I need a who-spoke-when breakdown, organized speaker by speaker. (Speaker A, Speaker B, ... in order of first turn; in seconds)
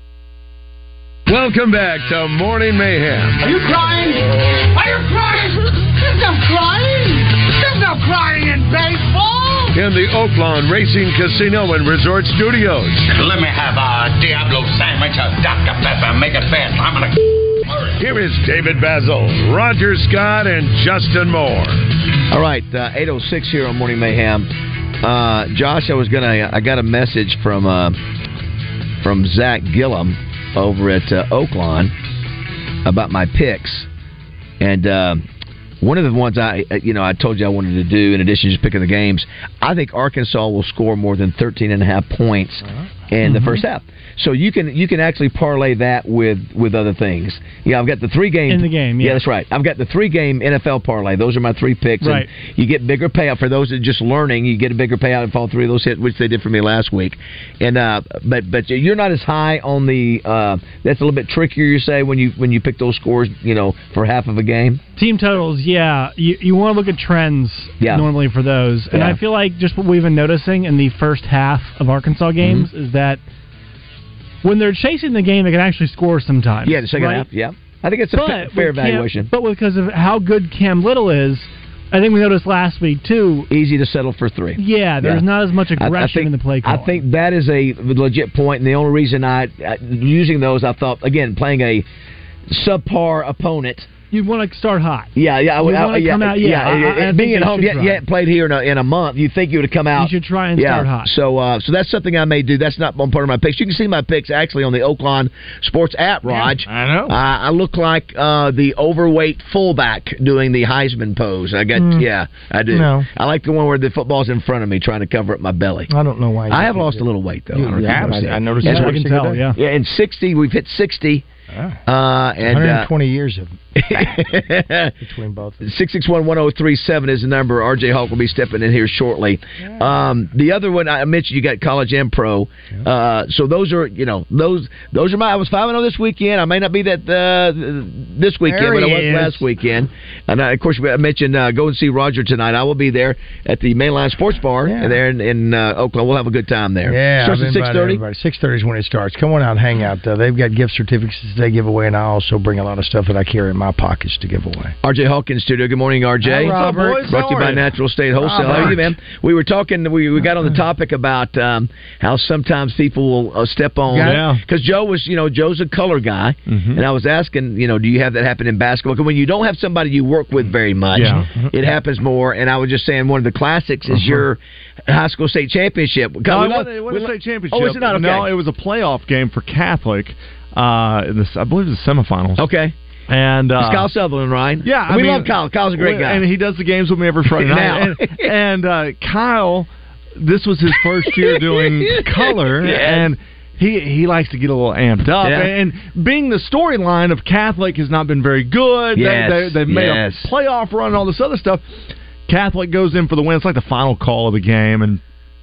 Speaker A: 1.3-3.4, 9.7-13.1, 18.0-21.8
Speaker B: 3.4-9.8
Speaker C: 13.1-17.2
Speaker D: 22.3-24.5, 25.0-28.0, 29.0-31.9, 32.8-33.9, 34.6-35.3, 35.8-64.8, 67.8-68.1, 68.9-69.2, 72.4-72.7, 76.6-79.3, 83.5-85.2, 85.8-91.8, 92.5-93.9, 95.2-115.9, 116.5-119.0, 119.5-121.2, 121.8-122.9, 123.8-124.9, 125.6-148.0, 154.8-178.3, 182.4-182.7, 183.6-186.2, 187.3-188.3, 191.0-193.1, 195.2-195.5, 198.9-200.3
Speaker E: 43.2-43.5, 48.5-49.2, 52.0-52.3, 65.0-73.2, 74.4-77.3, 78.1-83.5, 84.5-87.0, 94.1-98.0, 100.0-101.1, 118.6-119.6
Speaker F: 106.2-107.1, 111.7-112.0, 112.7-113.1, 115.9-119.4, 121.5-121.8, 122.4-123.5, 125.0-125.6, 138.4-139.4, 144.7-145.0, 146.9-154.7, 156.2-157.3, 158.2-158.9, 163.9-164.2
Speaker G: 117.7-118.1, 156.3-157.6, 163.9-164.4, 166.5-166.8, 170.9-171.3, 173.9-174.2, 176.2-182.4, 183.1-183.9, 184.6-201.6, 202.3-205.0